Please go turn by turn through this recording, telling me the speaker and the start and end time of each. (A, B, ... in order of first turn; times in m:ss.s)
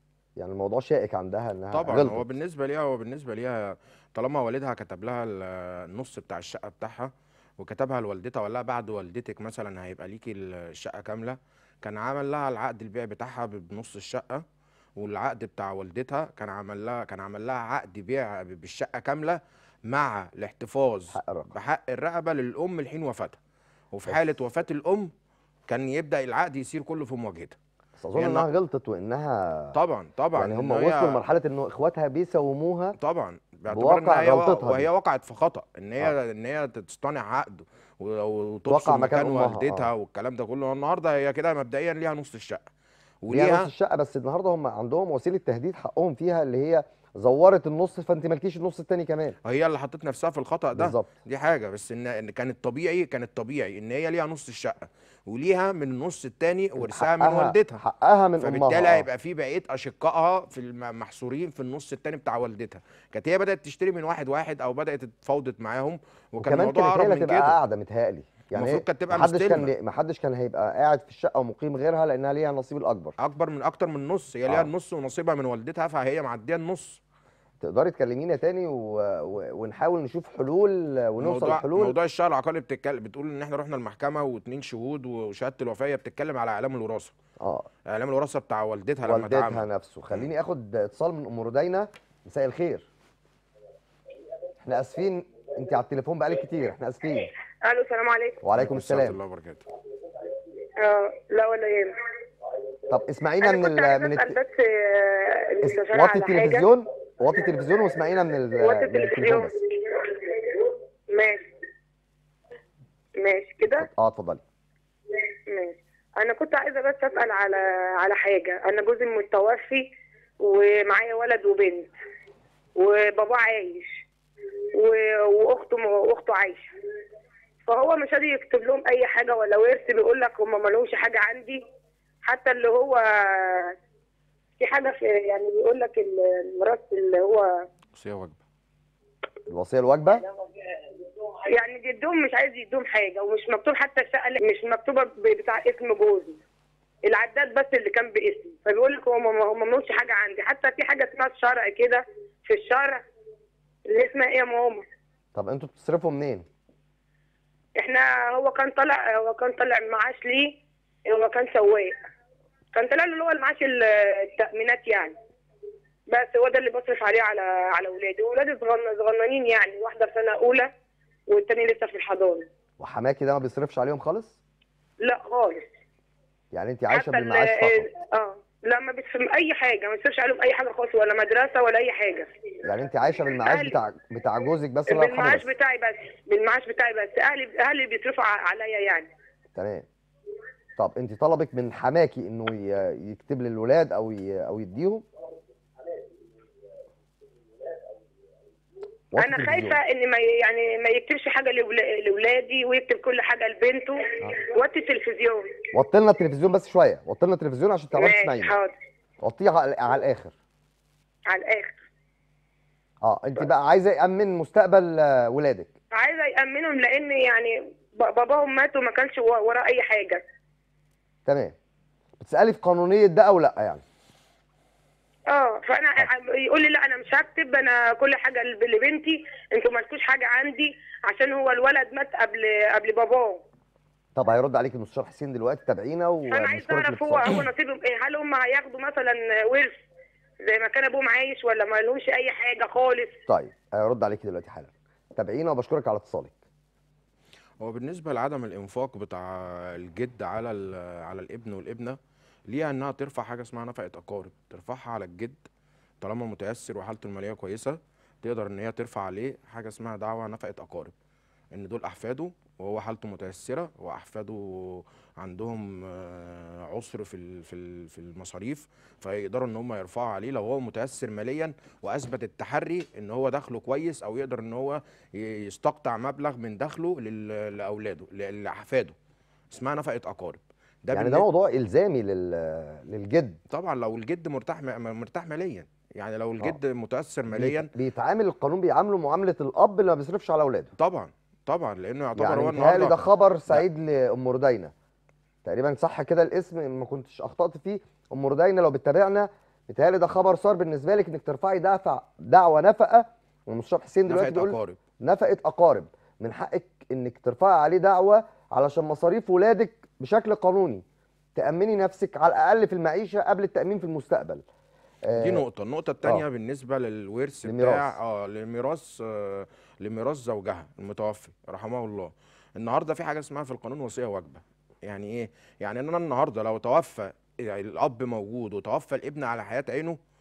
0:00.4-0:02.2 A
0:01.7-0:14.4 B
0:15.0-0:23.4 B
0:21.1-0:21.5 A
0:23.9-0:25.1 B
0:25.7-0:27.6 B
0:28.0-0:29.8 A
0:28.2-0:28.5 B
0:29.8-0:31.2 B
0:30.4-0:33.0 A
0:33.0-0:42.6 B
0:33.7-0:34.9 A
0:38.7-0:39.9 A
0:43.2-0:43.7 B
0:43.3-0:49.4 A
0:49.4-0:57.8 B
0:50.8-0:51.1 A
0:56.8-0:59.1 A
0:58.4-1:07.6 B
1:06.4-1:13.1 A
1:08.5-1:09.7 B
1:13.2-1:17.0 B
1:17.6-1:22.0 A
1:21.2-1:27.2 B
1:27.4-1:27.7 A
1:27.9-1:29.7 B
1:29.0-1:32.9 A
1:34.6-1:37.3 A
1:37.6-1:38.4 C
1:38.4-1:39.2 A
1:38.6-1:39.7 B
1:40.8-1:42.0 C
1:42.9-1:44.4 A
1:43.4-1:46.7 C
1:45.6-1:49.5 A
1:48.6-1:51.5 C
1:53.2-1:53.9 C
1:53.7-1:54.4 A
1:55.5-1:59.9 C
2:00.4-2:01.9 C
2:02.8-2:04.0 C
2:04.8-2:06.7 C
2:07.7-2:11.6 C
2:12.2-2:13.7 C
2:14.6-2:17.5 C
2:18.0-2:18.4 B
2:19.5-2:20.2 A
2:21.5-2:26.4 C
2:27.1-2:33.0 C
2:33.9-2:34.8 C
2:35.4-2:36.5 A
2:37.8-2:40.6 C
2:41.1-2:42.0 C
2:42.8-2:45.2 C
2:46.1-2:50.7 C
2:51.3-2:52.5 C
2:52.8-2:54.4 A
2:55.0-2:55.7 C
2:56.5-2:57.9 A
2:56.9-3:02.3 C
3:02.6-3:05.5 A
3:03.4-3:03.8 C
3:04.9-3:09.1 C
3:09.6-3:09.9 A
3:10.8-3:15.0 A
3:19.1-3:19.8 A
3:19.2-3:25.5 C
3:25.7-3:28.6 A
3:28.0-3:28.7 C
3:29.2-3:30.4 A
3:31.3-3:31.8 C
3:33.0-3:35.7 A
3:35.9-3:40.2 C
3:41.3-3:41.6 A
3:42.2-3:43.8 A
3:45.3-3:53.4 C
3:54.2-3:57.4 A
3:56.3-3:59.8 C
4:00.4-4:03.2 C
4:03.3-4:06.4 A
4:07.6-4:12.0 B
4:12.5-4:15.4 B
4:16.0-4:20.9 B
4:21.5-4:39.0 B
4:39.5-4:41.3 B
4:40.9-4:43.4 A
4:43.5-4:47.7 B
4:47.3-4:50.7 A
4:50.8-4:53.7 B
4:52.2-4:54.7 A
4:55.4-5:10.8 A
5:04.1-5:04.8 B
5:11.4-5:14.4 A
5:15.0-5:15.4 A
5:15.2-5:30.0 B
5:17.4-5:17.9 A